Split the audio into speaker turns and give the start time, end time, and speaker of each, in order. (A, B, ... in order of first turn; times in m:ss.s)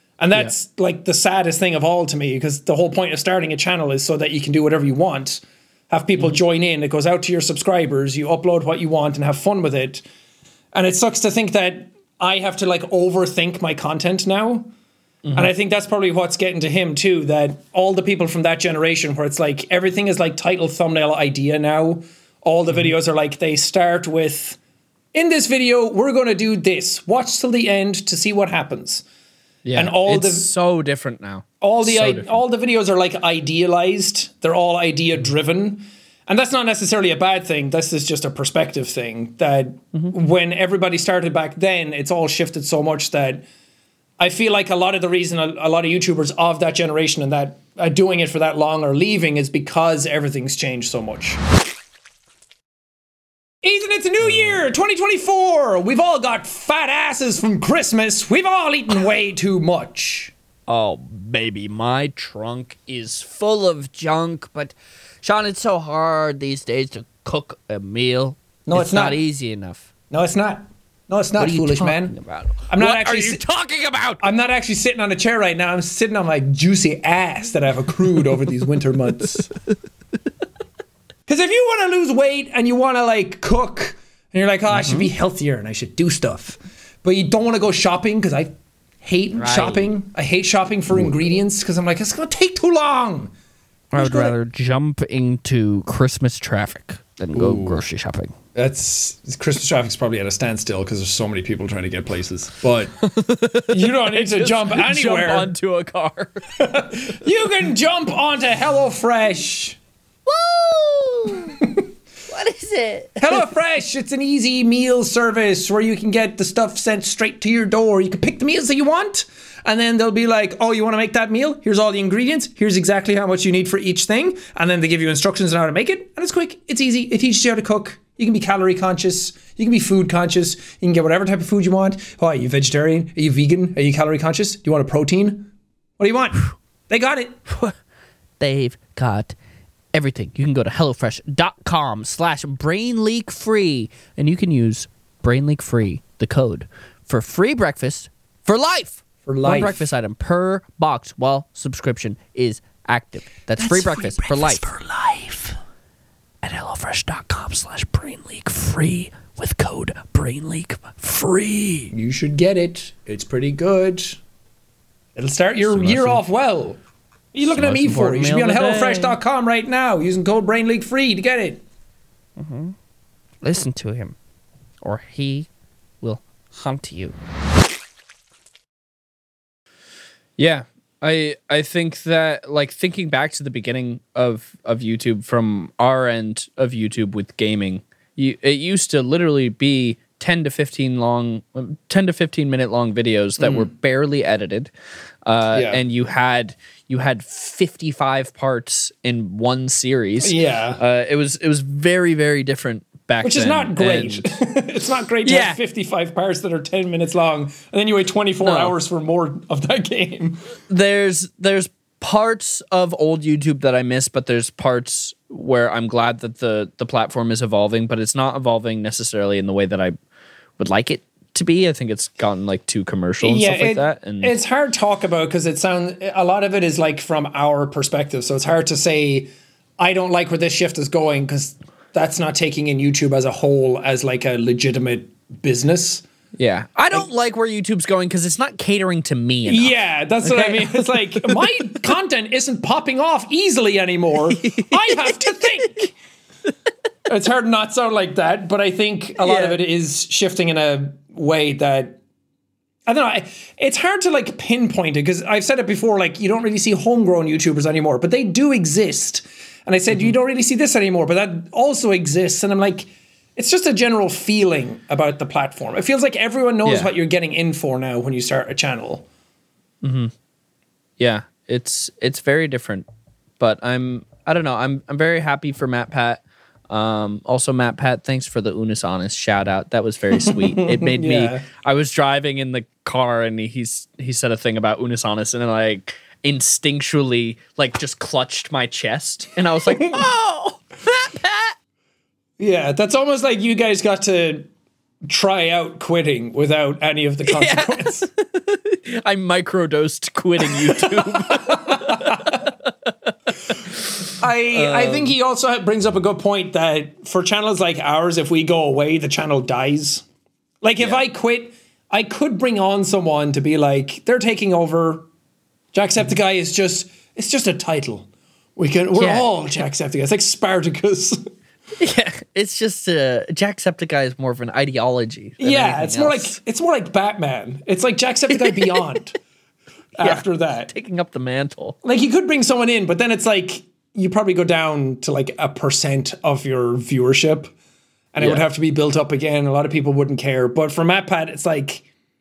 0:00.2-0:10.0 A
0:10.7-0:14.7 A
0:15.2-0:15.5 B
0:15.3-0:24.6 A
0:25.1-0:29.0 A
0:29.6-0:32.3 B
0:29.7-0:30.5 A
0:31.6-0:43.4 A
0:44.2-0:51.4 A
0:53.6-1:00.3 A
0:54.2-0:54.6 B
1:00.7-1:09.9 B
1:08.6-1:09.2 A
1:10.1-1:12.2 A
1:11.4-1:14.2 B
1:12.7-1:13.4 A
1:14.2-1:19.4 A
1:21.3-1:33.3 A
1:24.7-1:25.1 B
1:29.3-1:29.9 B
1:33.9-1:38.3 B
1:33.9-1:34.4 A
1:37.3-1:37.8 A
1:38.5-1:42.9 A
1:43.0-1:46.5 B
1:43.7-1:45.5 A
1:46.6-1:49.8 A
1:50.2-1:51.6 B
1:52.3-1:53.5 B
1:53.2-2:17.4 A
2:17.5-2:17.7 B
2:18.4-2:19.4 B
2:19.9-2:35.5 B
2:29.2-2:29.8 A
2:33.6-2:34.7 A
2:36.4-2:41.9 B
2:41.9-2:44.2 A
2:45.2-2:46.8 A
2:45.6-2:46.2 B
2:47.3-2:51.6 A
2:47.5-2:49.2 B
2:52.4-2:52.7 B
2:53.4-2:54.1 B
2:54.8-2:55.5 B
2:56.0-2:57.2 B
3:00.4-3:14.7 B
3:13.4-3:13.7 A
3:15.2-3:24.3 B
3:15.5-3:15.8 A
3:20.2-3:20.8 A
3:23.2-3:30.4 A
3:25.2-3:25.6 B
3:28.4-3:28.8 B
3:30.7-3:40.0 B
3:40.6-3:44.4 B
3:43.2-3:56.0 A
3:56.4-4:01.4 B
3:59.4-4:05.9 A
4:04.4-4:05.9 B
4:07.0-4:12.0 A
4:09.2-4:09.6 B
4:12.9-4:29.0 A
4:26.6-4:26.9 B
4:29.8-4:30.1 B
4:31.0-4:32.8 B
4:33.4-4:51.5 B
4:40.2-4:41.4 A
4:49.7-4:50.0 A
4:52.4-4:54.5 A
4:55.0-4:58.1 A
4:57.2-5:05.1 B
5:00.4-5:02.5 A
5:04.2-5:10.0 A
5:10.6-5:15.1 A
5:15.7-5:21.2 A
5:18.9-5:19.3 B
5:21.8-5:26.4 B
5:25.4-5:29.2 A
5:28.3-5:28.8 B
5:30.0-5:30.7 A
5:30.0-5:31.8 B
5:31.8-5:37.5 A
5:38.1-5:41.8 A
5:38.2-5:38.4 B